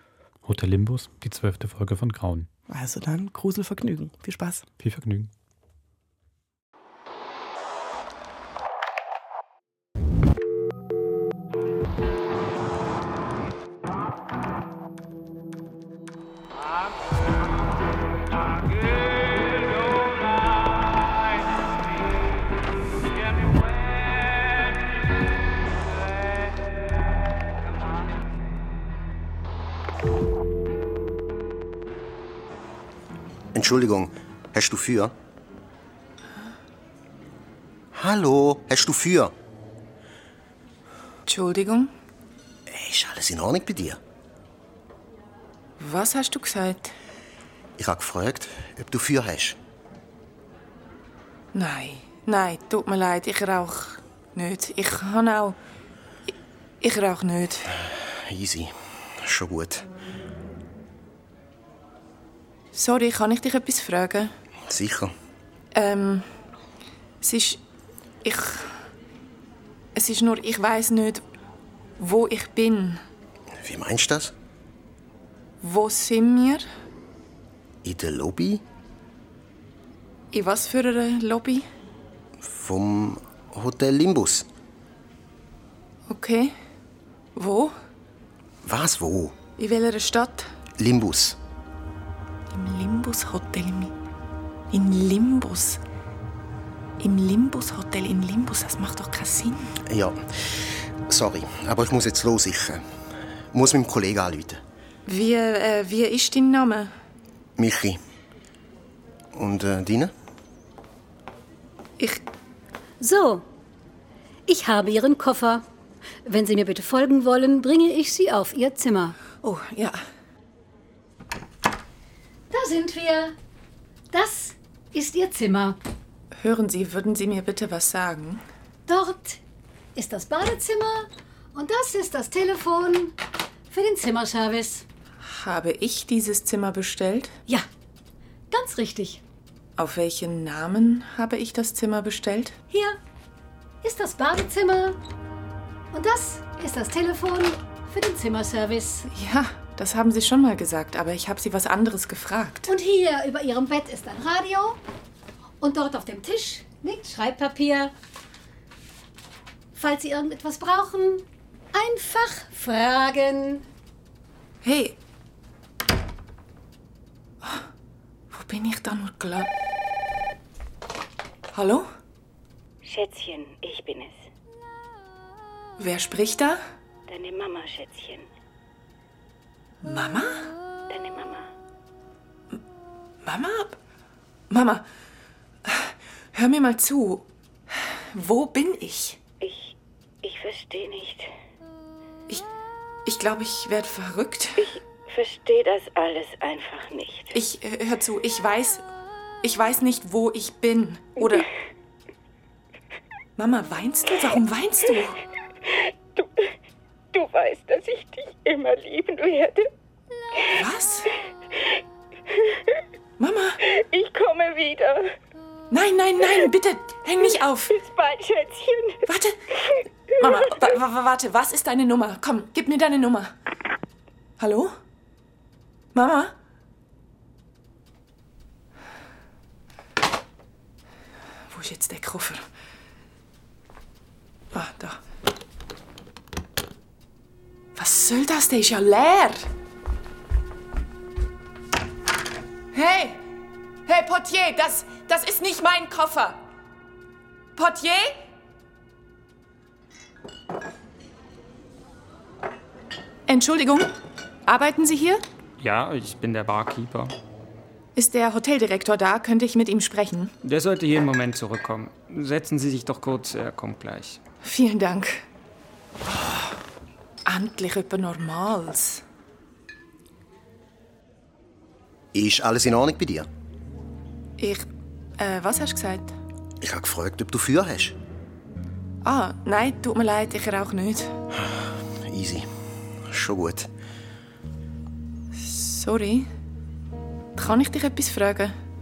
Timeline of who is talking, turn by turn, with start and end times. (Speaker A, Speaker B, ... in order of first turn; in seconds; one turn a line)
Speaker A: 0.4-2.5
Speaker B: 2.7-4.7
Speaker A: 4.8-5.3
Speaker C: 33.5-35.1
Speaker C: 37.9-39.3
Speaker D: 41.3-41.9
Speaker C: 42.7-44.0
Speaker D: 45.8-46.9
Speaker C: 47.8-49.6
Speaker D: 51.5-55.6
Speaker D: 56.8-57.7
Speaker C: 57.8-59.9
Speaker D: 62.7-64.3
Speaker C: 64.7-65.1
Speaker D: 65.7-66.3
Speaker D: 67.2-67.6
Speaker D: 68.2-68.7
Speaker D: 70.0-71.2
Speaker D: 72.0-73.0
Speaker C: 73.6-74.3
Speaker D: 75.6-76.7
Speaker C: 77.8-78.6
Speaker D: 80.3-81.7
Speaker C: 82.4-84.5
Speaker D: 86.1-86.5
Speaker D: 87.3-87.7
Speaker C: 88.6-89.4
Speaker D: 89.6-90.5
Speaker C: 90.8-91.4
Speaker D: 92.5-93.9
Speaker D: 94.7-95.8
Speaker D: 97.0-99.7
Speaker C: 99.9-102.8
Speaker C: 103.5-104.6
Speaker D: 105.1-106.9
Speaker C: 107.6-108.0
Speaker C: 109.3-110.1
Speaker E: 113.0-113.5
Speaker E: 114.5-115.7
Speaker E: 116.3-119.2
Speaker D: 119.4-120.0
Speaker E: 122.5-123.3
Speaker E: 124.1-125.8
Speaker D: 126.4-128.4
Speaker E: 128.9-129.4
Speaker E: 129.9-133.2
Speaker E: 133.7-134.8
Speaker D: 135.2-137.3
Speaker E: 138.5-139.2
Speaker D: 139.8-142.6
Speaker E: 142.7-143.0
Speaker E: 143.8-145.0
Speaker E: 145.9-149.1
Speaker D: 149.1-152.7
Speaker E: 152.7-154.8
Speaker E: 155.6-157.9
Speaker E: 159.8-163.7
Speaker D: 164.6-165.0
Speaker D: 168.3-169.5
Speaker D: 171.5-171.9
Speaker F: 172.8-174.3
Speaker D: 175.8-176.6
Speaker F: 177.1-178.3
Speaker D: 179.8-180.5
Speaker F: 180.9-181.5
Speaker D: 183.2-183.8
Speaker D: 184.5-184.8
Speaker D: 185.7-187.3
Speaker D: 188.1-189.2
Speaker F: 189.4-191.3
Speaker D: 193.1-194.7
Speaker F: 194.6-197.3
Speaker D: 197.3-198.8
Speaker D: 199.4-201.5
Speaker D: 203.4-205.2
Speaker F: 207.1-209.7
Speaker D: 210.5-211.1
Speaker D: 213.2-213.6
Speaker F: 213.6-215.1
Speaker D: 215.7-217.7
Speaker F: 217.7-219.0
Speaker D: 219.1-219.4
Speaker F: 219.7-220.8
Speaker D: 220.2-223.3
Speaker D: 224.4-224.7
Speaker D: 225.9-226.3
Speaker D: 231.5-232.4
Speaker D: 234.5-235.0
Speaker D: 237.8-239.5
Speaker D: 242.7-243.2
Speaker D: 243.9-246.4
Speaker D: 247.6-248.2
Speaker D: 253.3-253.9
Speaker D: 254.5-255.2
Speaker G: 255.6-257.1
Speaker D: 258.0-260.3
Speaker G: 260.4-264.2
Speaker D: 264.4-265.2
Speaker D: 267.2-269.0
Speaker C: 272.1-273.3
Speaker D: 274.4-274.6
Speaker D: 275.2-276.1
Speaker C: 276.6-278.0
Speaker D: 279.0-281.1
Speaker C: 281.3-282.5
Speaker C: 283.0-283.7
Speaker D: 285.3-286.3
Speaker D: 287.4-288.6